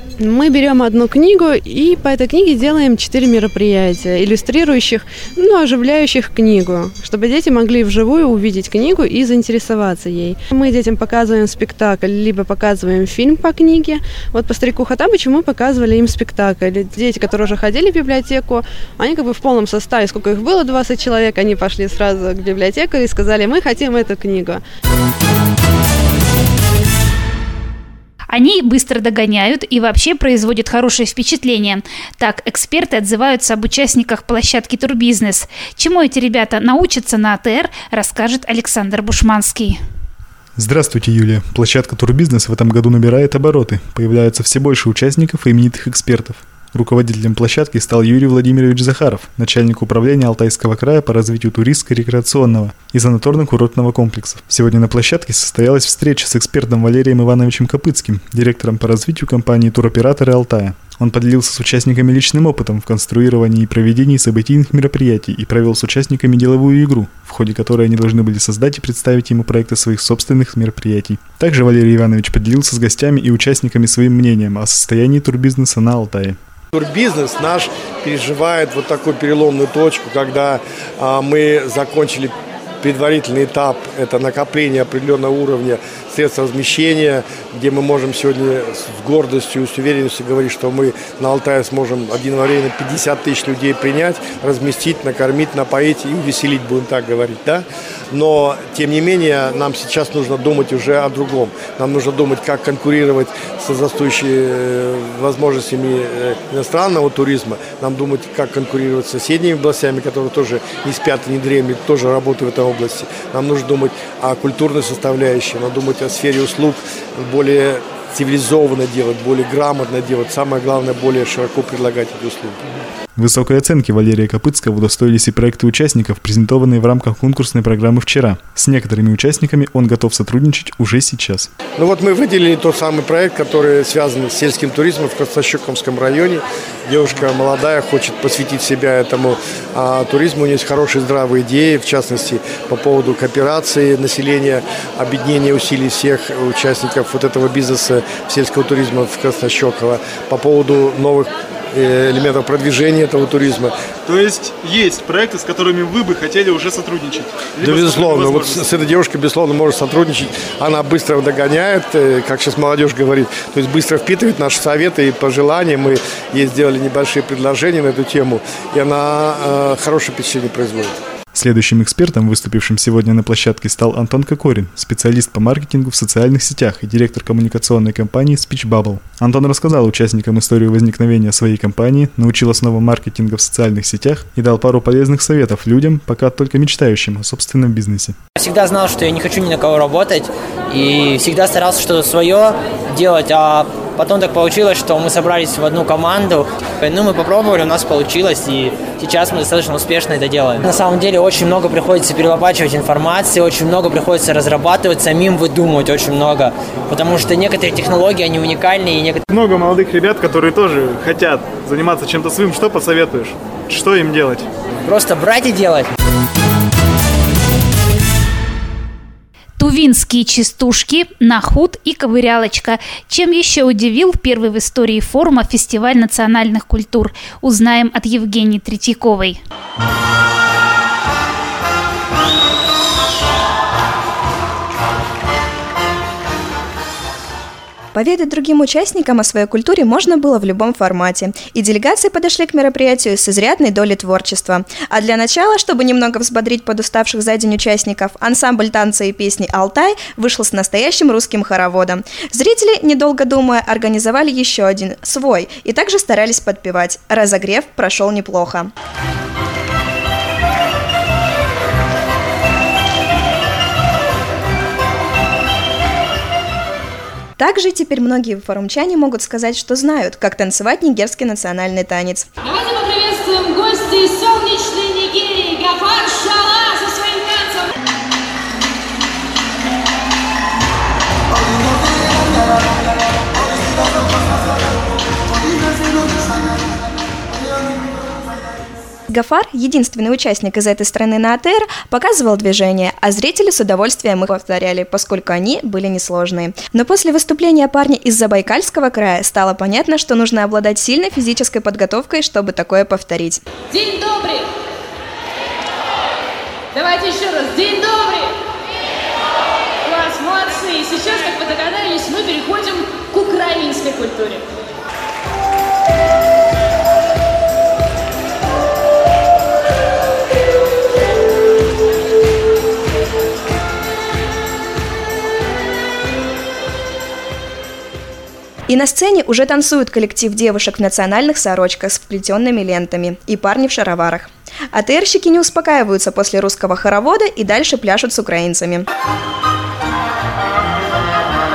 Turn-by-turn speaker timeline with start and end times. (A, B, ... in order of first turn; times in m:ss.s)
0:00.2-0:24.6 A
0:28.3-0:39.8 B
0:40.6-1:16.4 C
1:16.7-2:02.6 D
2:03.2-2:11.5 C
2:11.8-2:33.7 D
2:34.1-2:38.8 E
2:37.6-2:51.0 D
2:51.3-3:08.2 C
3:08.4-3:29.2 F
3:29.3-3:34.5 E
3:34.9-3:35.9 F
3:39.6-3:49.4 B
3:57.9-4:18.7 G
4:27.4-4:32.3 G
4:32.5-4:37.7 H
4:49.1-5:03.4 G
5:03.7-5:04.5 H
5:06.7-5:08.3 H
5:09.8-5:14.4 H
5:28.7-5:38.9 G